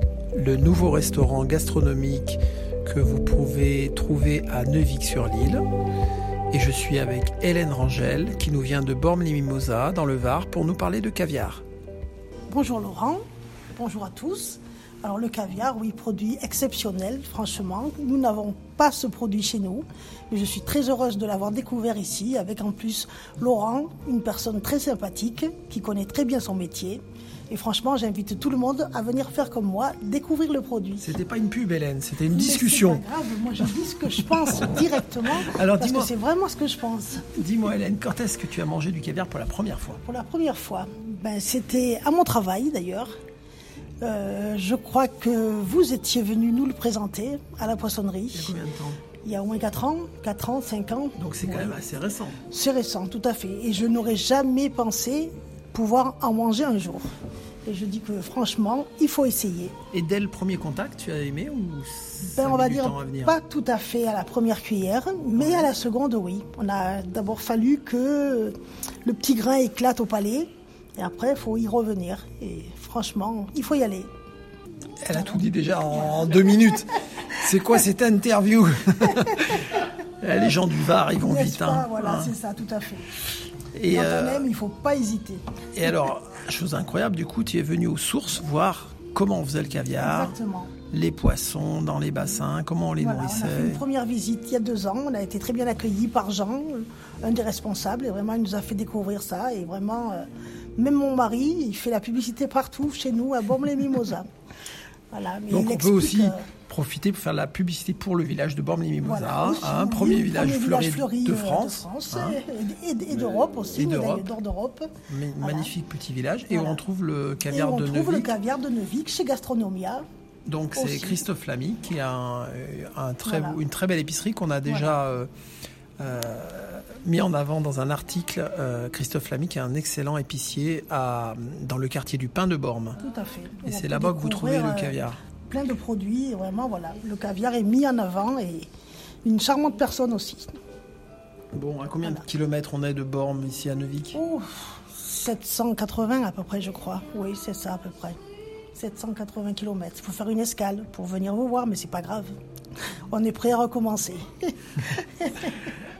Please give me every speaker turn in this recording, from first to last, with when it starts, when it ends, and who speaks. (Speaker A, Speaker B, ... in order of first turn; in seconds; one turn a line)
Speaker A: 0.3-5.6
Speaker A: 6.5-11.6
Speaker B: 12.5-13.2
Speaker B: 13.7-31.1
Speaker A: 31.0-33.0
Speaker B: 32.3-37.3
Speaker A: 34.5-34.8
Speaker A: 35.5-36.1
Speaker A: 37.4-40.0
Speaker B: 40.0-43.1
Speaker B: 44.0-48.5
Speaker A: 48.3-49.0
Speaker B: 49.2-51.8
Speaker A: 51.2-52.4
Speaker B: 52.5-57.1
Speaker B: 57.6-59.7
Speaker A: 59.9-63.4
Speaker B: 62.3-74.1
Speaker A: 65.3-65.7
Speaker A: 75.0-82.3
Speaker B: 81.2-83.1
Speaker A: 83.7-84.4
Speaker B: 83.9-85.4
Speaker A: 85.8-90.3
Speaker B: 90.0-90.7
Speaker A: 90.9-93.8
Speaker B: 93.0-104.3
Speaker B: 105.1-106.5
Speaker A: 105.5-112.4
Speaker B: 109.0-115.7
Speaker A: 113.7-114.3
Speaker A: 115.1-118.3
Speaker B: 116.5-116.8
Speaker B: 117.5-120.0
Speaker A: 120.5-125.3
Speaker B: 120.8-121.2
Speaker B: 123.2-123.6
Speaker A: 126.0-133.0
Speaker B: 133.0-138.7
Speaker A: 133.6-135.2
Speaker B: 139.2-140.5
Speaker A: 141.5-144.2
Speaker B: 144.1-148.2
Speaker B: 148.7-152.3
Speaker B: 153.1-155.6